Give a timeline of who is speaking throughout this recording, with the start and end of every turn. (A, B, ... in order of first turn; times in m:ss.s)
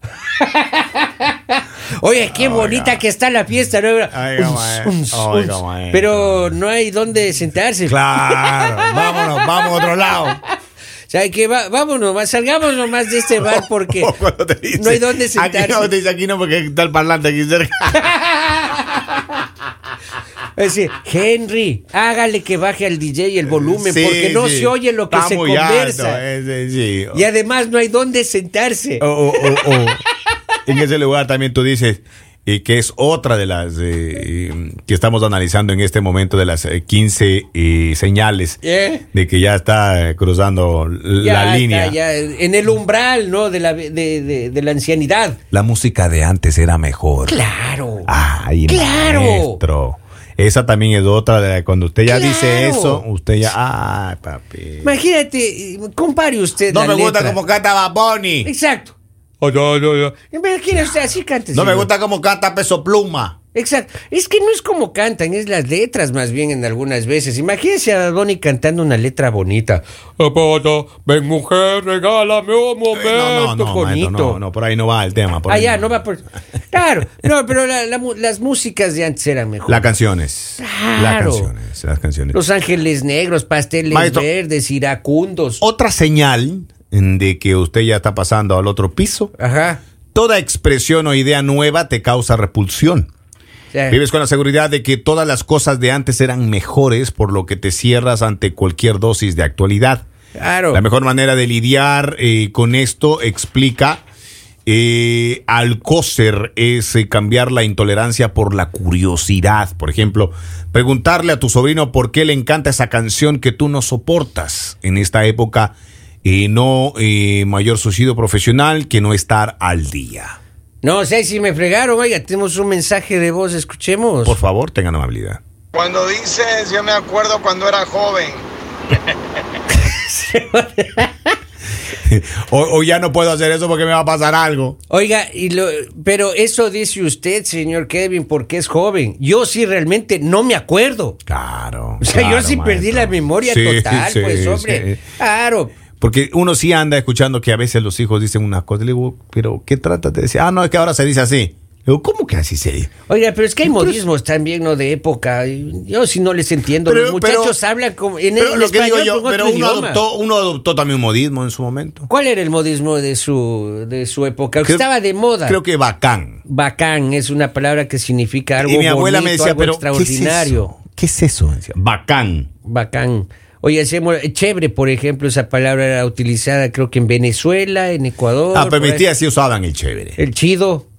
0:00.2-0:10.3 A
0:02.3-0:03.0 B
0:04.1-0:06.5 B
0:07.9-0:10.4 B
0:11.1-0:14.1 A
0:13.4-0:18.0 B
0:14.7-0:15.9 A
0:17.9-0:19.3 A
0:20.6-0:26.2 A
0:23.5-0:27.2 B
0:27.1-0:29.8 A
0:29.0-0:30.0 B
0:30.6-0:38.6 B
0:38.6-0:39.0 A
0:39.1-0:42.0 B
0:41.2-0:45.4 A
0:45.5-0:47.4 B
0:47.2-0:48.1 A
0:48.0-0:55.0 B
0:48.7-0:49.6 A
0:52.0-0:53.0 A
0:54.8-0:57.4 A
0:56.7-0:58.5 B
0:58.4-1:01.9 A
1:01.5-1:03.4 B
1:03.5-1:14.4 A
1:12.9-1:15.9 B
1:15.5-1:19.9 A
1:19.7-1:22.4 B
1:20.6-1:21.5 A
1:22.3-1:25.6 A
1:23.9-1:24.3 B
1:25.6-1:29.3 B
1:29.4-1:29.8 A
1:30.1-1:33.1 B
1:33.7-1:34.0 A
1:33.9-1:40.0 B
1:40.4-1:40.8 A
1:40.7-1:44.0 B
1:44.6-2:00.4 B
2:00.8-2:04.4 A
2:04.2-2:05.4 B
2:05.7-2:08.4 C
2:09.7-2:11.3 A
2:12.0-2:14.8 B
2:14.9-2:21.2 A
2:21.3-2:25.0 B
2:22.0-2:25.7 A
2:26.0-2:32.9 B
2:33.1-2:40.0 A
2:33.6-2:34.0 B
2:36.8-2:37.6 B
2:38.4-2:42.1 B
2:42.1-2:45.6 A
2:45.4-2:46.4 B
2:46.4-2:50.7 A
2:48.6-2:52.5 B
2:52.6-2:59.0 A
2:58.5-3:00.2 B
3:00.2-3:00.9 A